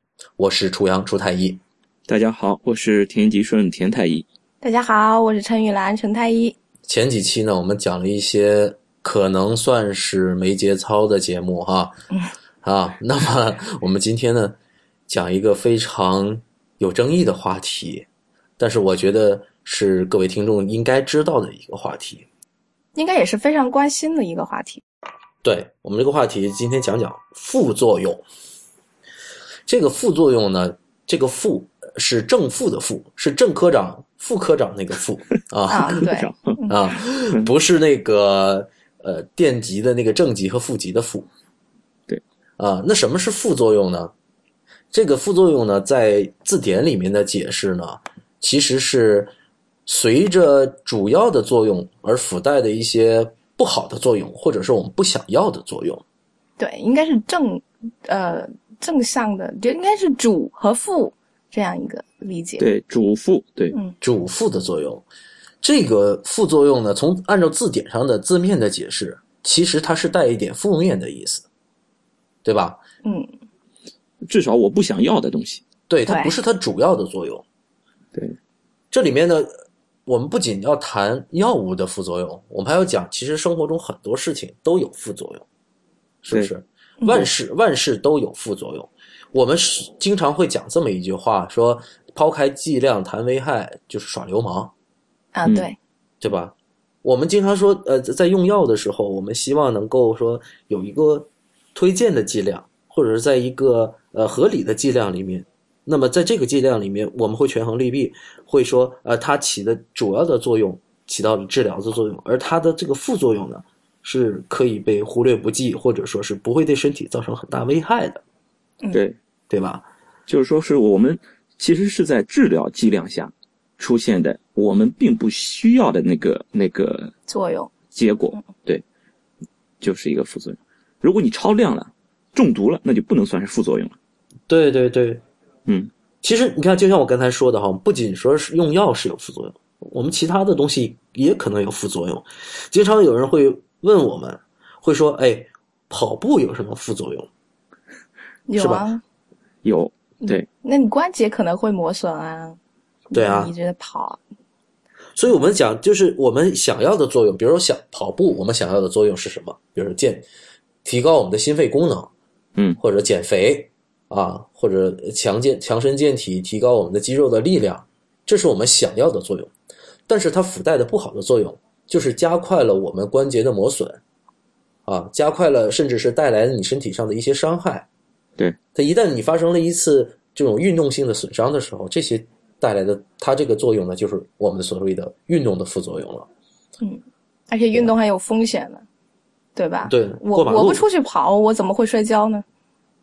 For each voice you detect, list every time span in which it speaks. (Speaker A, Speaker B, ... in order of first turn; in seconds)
Speaker A: 0.4-1.6, 6.9-11.9, 12.6-14.6, 15.1-18.0, 18.6-22.2, 25.4-28.2, 29.7-36.1, 36.7-41.3, 42.6-44.1, 44.9-49.3, 49.9-56.0, 64.0-65.0, 65.6-71.5, 72.4-72.8, 75.9-77.4, 78.9-79.5, 80.0-85.4, 86.2-94.7, 96.2-118.2, 119.5-119.8, 134.5-135.2, 136.2-147.3, 148.6-148.8, 153.1-153.5, 155.2-160.2, 160.8-162.1, 162.8-169.5, 170.1-174.0, 174.8-177.8, 178.7-186.3, 189.8-190.8
Speaker B: 2.1-4.2, 36.0-36.5, 62.6-63.8, 74.3-75.6, 118.9-119.2, 120.3-127.1, 127.9-128.8, 129.8-133.9, 135.7-135.9, 149.6-150.5
Speaker C: 4.6-6.5, 22.9-24.8, 35.7-36.8, 56.6-62.6, 73.0-73.3, 76.1-76.3, 87.0-87.3, 95.3-95.8, 127.3-127.7, 148.5-149.0, 150.2-152.6, 153.1-154.2, 186.8-188.8, 189.6-192.4